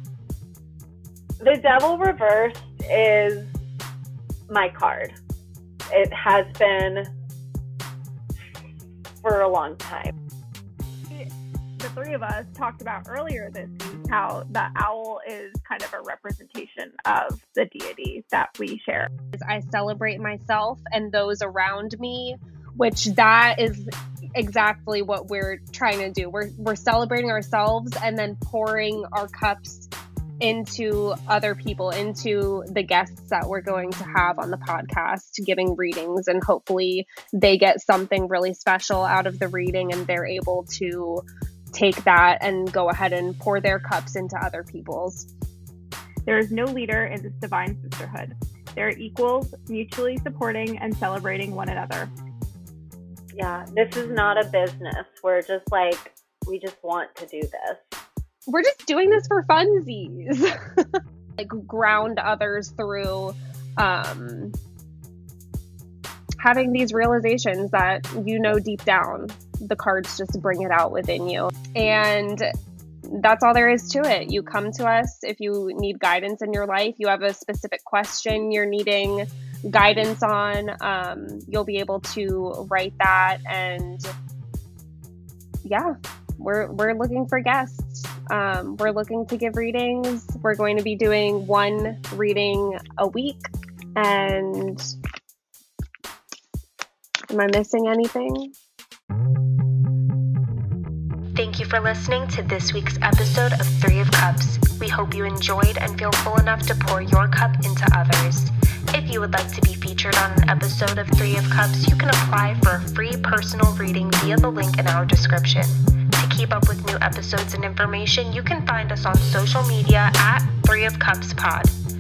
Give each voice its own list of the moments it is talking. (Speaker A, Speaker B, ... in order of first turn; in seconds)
Speaker A: 1.4-3.5, 4.5-5.1, 5.9-7.1, 9.2-10.1, 53.3-57.9
Speaker B: 11.1-19.1, 46.3-52.1
Speaker C: 19.3-29.9, 30.4-45.3, 58.5-64.5, 66.4-72.5, 73.1-84.1, 85.7-94.9, 97.3-98.5
Speaker D: 101.4-121.7